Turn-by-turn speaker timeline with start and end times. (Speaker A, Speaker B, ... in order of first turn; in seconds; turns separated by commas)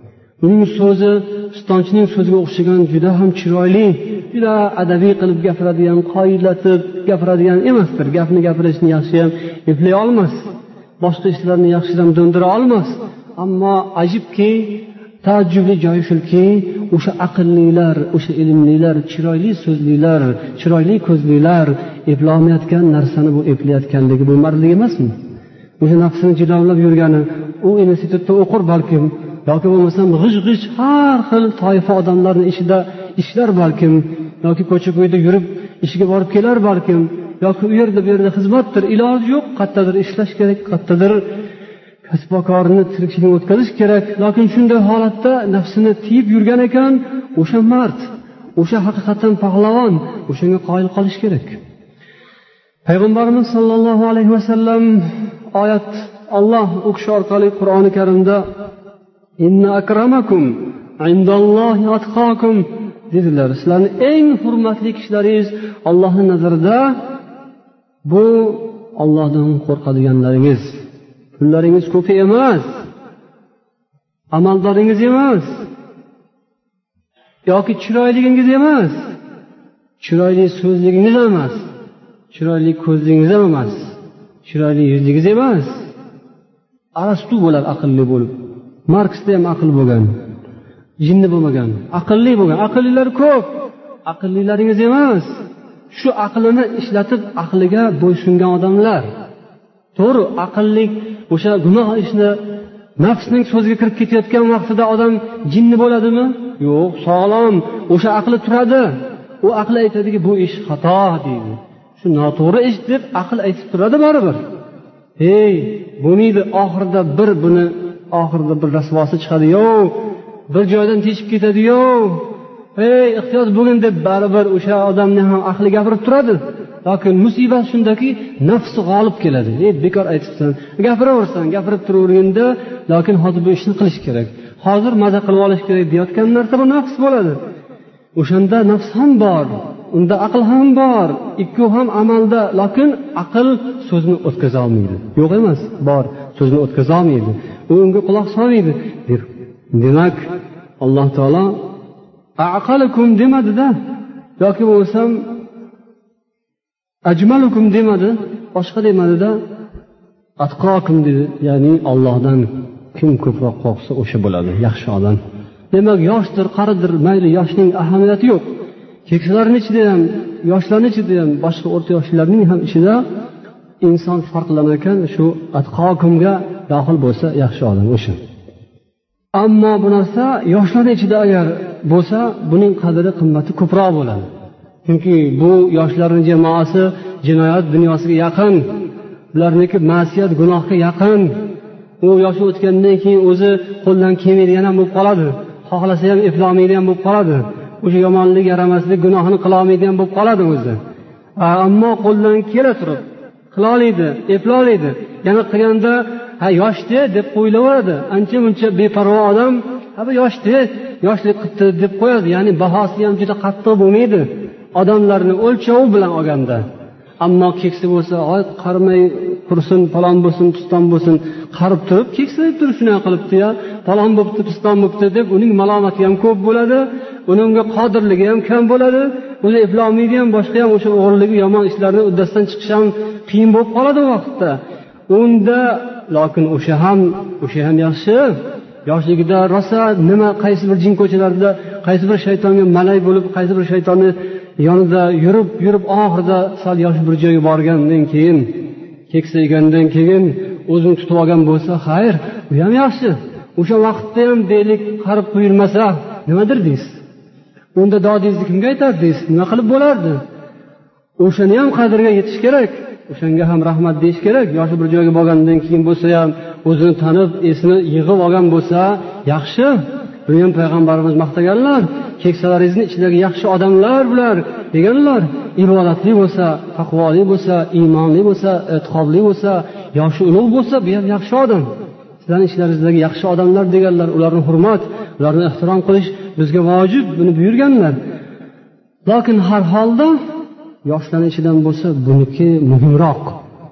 Speaker A: 0.4-10.4, Speaker A: 11.0-25.1, Speaker A: 25.8-41.2, Speaker A: 42.0-51.6, Speaker A: 52.8-58.4, Speaker A: 59.4-67.0, Speaker A: 68.0-70.8, Speaker A: 71.4-72.7, Speaker A: 74.3-75.6, Speaker A: 77.5-79.0, Speaker A: 80.0-81.6, Speaker A: 82.3-85.8, Speaker A: 87.0-88.3, Speaker A: 88.9-90.1, Speaker A: 91.0-93.5, Speaker A: 94.1-95.3, Speaker A: 95.9-99.0, Speaker A: 100.0-102.4, Speaker A: 103.0-114.4, Speaker A: 115.2-119.9, Speaker A: 120.5-137.4, Speaker A: 138.2-151.6, Speaker A: 152.4-153.7, Speaker A: 154.4-155.3, Speaker A: 157.1-159.4, Speaker A: 160.4-165.2, Speaker A: 165.7-168.5, Speaker A: 169.1-173.0, Speaker A: 173.8-178.2, Speaker A: 179.3-184.3, Speaker A: 184.8-188.7, Speaker A: 189.3-191.3, Speaker A: 192.0-200.8, Speaker A: 201.4-216.6, Speaker A: 217.2-238.3, Speaker A: 238.8-257.0, Speaker A: 257.7-260.2, Speaker A: 261.2-281.6, Speaker A: 282.2-288.0, Speaker A: 289.1-290.2, Speaker A: 290.8-293.4